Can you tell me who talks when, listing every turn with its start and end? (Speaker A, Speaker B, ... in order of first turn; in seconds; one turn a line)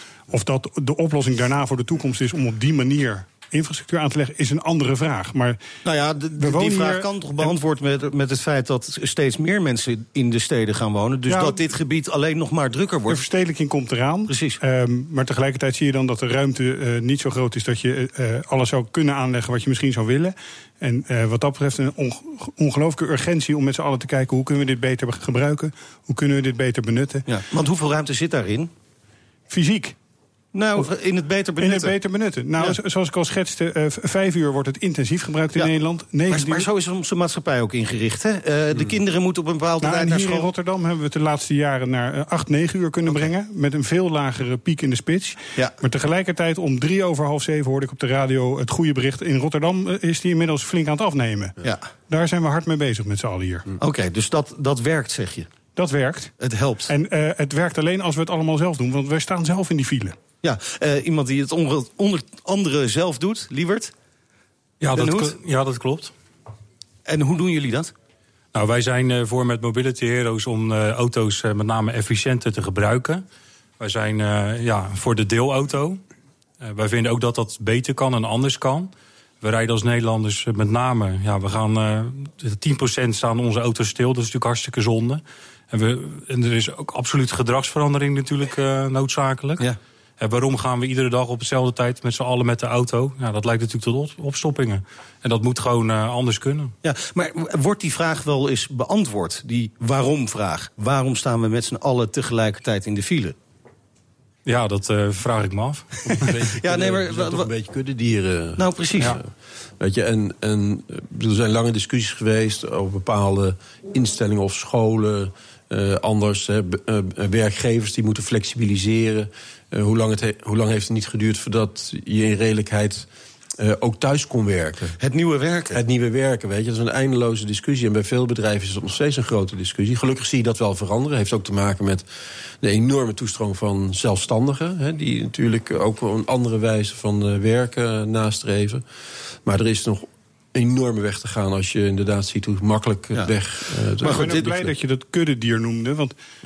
Speaker A: 0.3-5.6
Speaker B: 5.8-13.2
Speaker A: 6.4-7.5
Speaker A: 11.3-11.6
Speaker A: 13.1-27.3
Speaker B: 14.3-14.6
Speaker B: 27.3-28.7
Speaker A: 29.5-30.0
Speaker B: 30.5-31.9
Speaker A: 31.6-36.7
Speaker B: 36.3-40.5
Speaker A: 39.8-53.7
Speaker B: 51.6-51.9
Speaker B: 53.8-55.5
Speaker A: 55.8-56.3
Speaker B: 56.4-56.9
Speaker A: 56.9-60.2
Speaker B: 60.4-63.9
Speaker C: 64.8-66.1
Speaker B: 64.9-65.4
Speaker B: 67.1-67.9
Speaker C: 68.5-73.2
Speaker C: 73.8-76.0
Speaker C: 76.6-89.7
Speaker C: 90.2-96.7
Speaker B: 96.8-103.4
Speaker C: 104.5-106.3
Speaker D: 106.1-109.3
Speaker B: 106.5-107.5
Speaker B: 108.6-109.2
Speaker D: 109.8-125.0
Speaker B: 125.0-125.8
Speaker D: 125.7-132.1
Speaker D: 132.6-138.8
Speaker D: 139.4-144.7
Speaker A: 144.0-146.2
Speaker B: 144.0-144.4